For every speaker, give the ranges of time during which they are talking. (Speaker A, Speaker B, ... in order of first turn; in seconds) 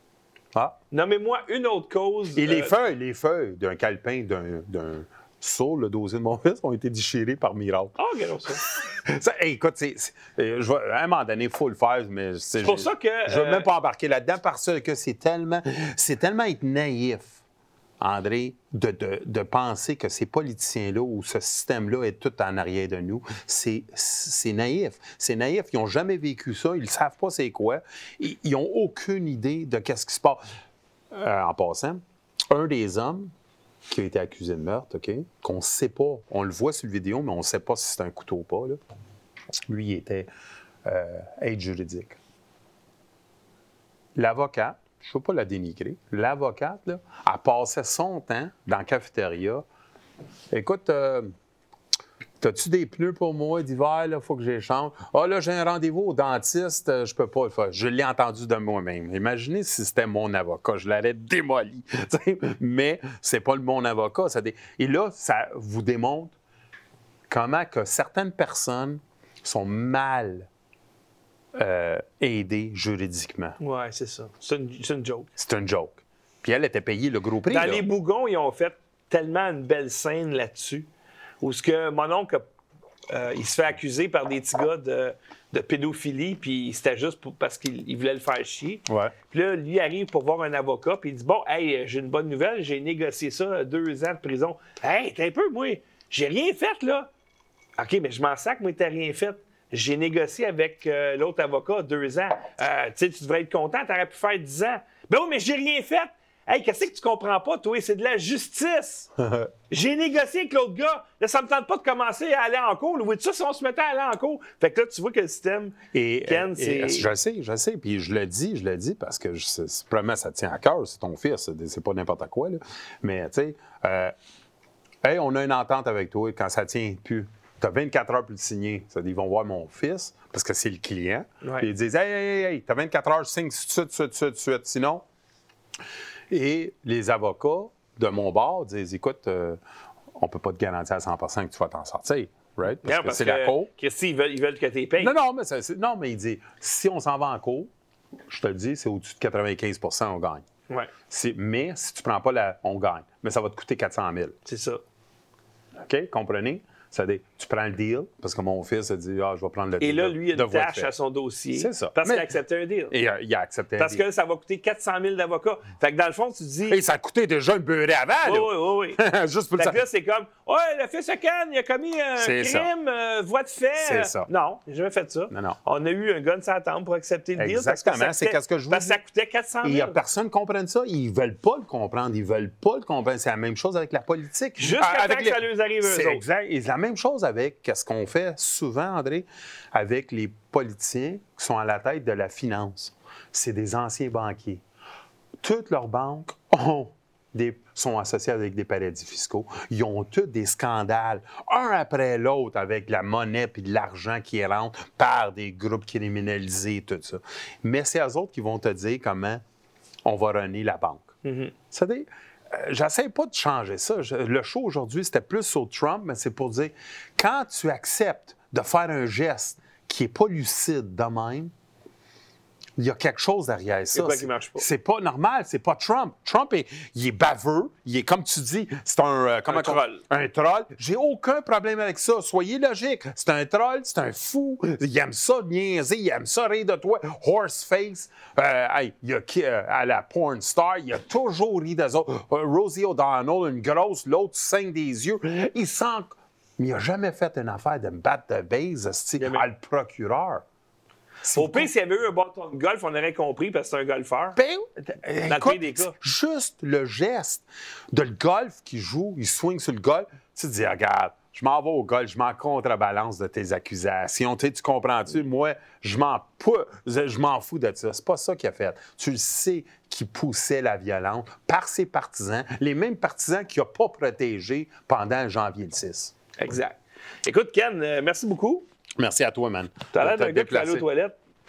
Speaker A: 0.9-2.7, 8.0-8.6, 12.6-13.7, 73.6-75.3, 77.5-80.9, 81.4-82.5, 83.1-97.1, 97.8-109.1, 109.7-117.0, 131.4-131.7, 142.8-145.1, 154.4-154.8, 159.8-162.9, 163.8-166.8, 168.2-169.0, 169.6-180.0, 184.6-186.2, 211.2-211.5, 223.9-224.6, 229.5-230.0, 249.2-249.4, 251.3-254.4, 255.3-255.9, 276.4-278.6, 279.9-281.1
Speaker B: 2.4-8.0, 8.5-17.4, 18.0-30.4, 31.1-33.3, 33.9-38.8, 39.7-40.3, 40.8-42.2, 44.1-49.6, 50.5-51.3, 52.4-66.3, 67.3-70.5, 71.5-73.6, 75.4-77.8, 88.9-89.1, 109.2-109.5, 115.9-124.1, 125.0-135.0, 136.3-139.6, 140.2-143.7, 145.0-147.7, 148.3-150.4, 151.1-154.3, 155.8-160.9, 161.5-162.3, 162.9-164.0, 166.7-169.8, 172.2-172.7, 173.8-174.3, 175.3-175.6, 177.4-179.0, 179.6-194.6, 195.4-209.4, 210.0-211.1, 211.7-221.5, 222.8-250.4, 251.2-251.7, 254.3-276.1, 279.0-280.9